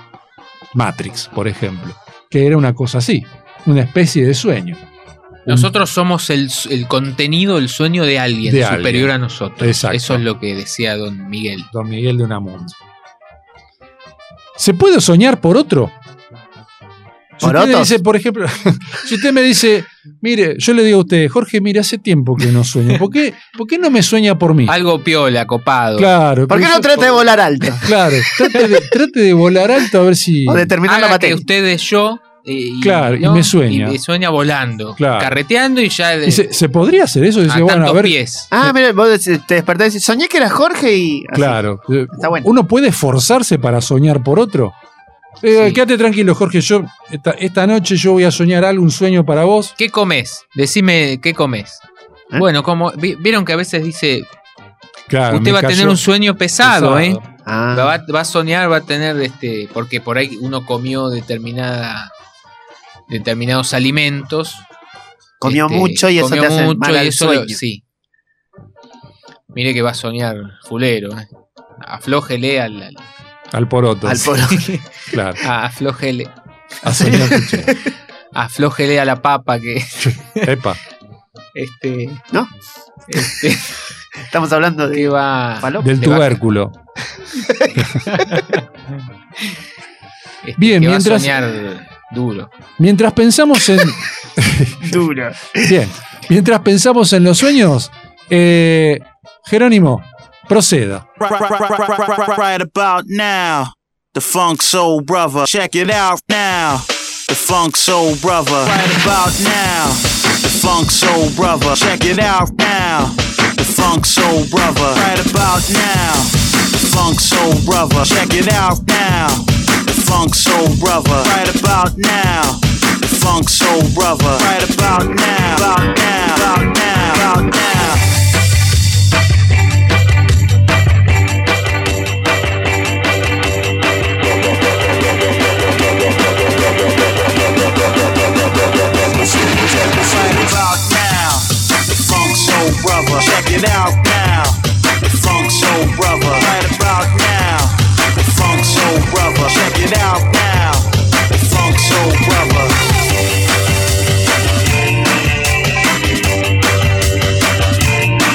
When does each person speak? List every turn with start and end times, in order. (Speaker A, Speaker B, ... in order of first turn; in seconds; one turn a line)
Speaker A: 0.7-4.8
Speaker B: 5.5-11.7
Speaker A: 8.4-10.2
Speaker A: 11.7-12.8
Speaker A: 14.6-15.9
Speaker A: 17.4-24.8
Speaker C: 17.4-18.0
Speaker B: 24.7-26.1
Speaker A: 26.0-27.1
Speaker C: 26.5-27.9
Speaker A: 27.8-30.7
Speaker C: 30.4-31.4
Speaker B: 30.9-36.5
Speaker A: 32.8-34.0
Speaker A: 35.0-35.4
Speaker A: 36.2-38.2
Speaker B: 37.5-38.5
Speaker C: 38.5-41.6
Speaker A: 41.3-44.8
Speaker C: 42.1-42.5
Speaker A: 45.4-49.7
Speaker B: 45.5-45.8
Speaker B: 49.8-51.8
Speaker B: 52.4-54.3
Speaker A: 55.1-56.0
Speaker B: 55.3-57.2
Speaker A: 56.6-57.2
Speaker C: 57.4-57.9
Speaker B: 57.7-62.1
Speaker B: 63.1-64.6
Speaker C: 65.4-67.6
Speaker B: 65.4-67.8
Speaker B: 69.5-71.2
Speaker B: 71.8-73.0
Speaker A: 73.5-74.4
Speaker C: 74.0-74.7
Speaker B: 74.5-74.8
Speaker A: 75.1-75.4
Speaker B: 75.4-76.3
Speaker A: 76.8-77.7
Speaker C: 76.8-77.9
Speaker B: 78.3-80.5
Speaker A: 80.0-80.8
Speaker B: 81.5-82.2
Speaker B: 83.1-83.8
Speaker C: 84.2-86.2
Speaker B: 84.9-86.3
Speaker A: 85.8-86.8
Speaker C: 87.4-87.7
Speaker B: 88.0-89.6
Speaker B: 90.4-92.5
Speaker A: 90.6-91.4
Speaker A: 92.8-94.9
Speaker C: 94.8-95.7
Speaker A: 95.6-101.1
Speaker D: 101.2-128.0
Speaker D: 139.2-152.8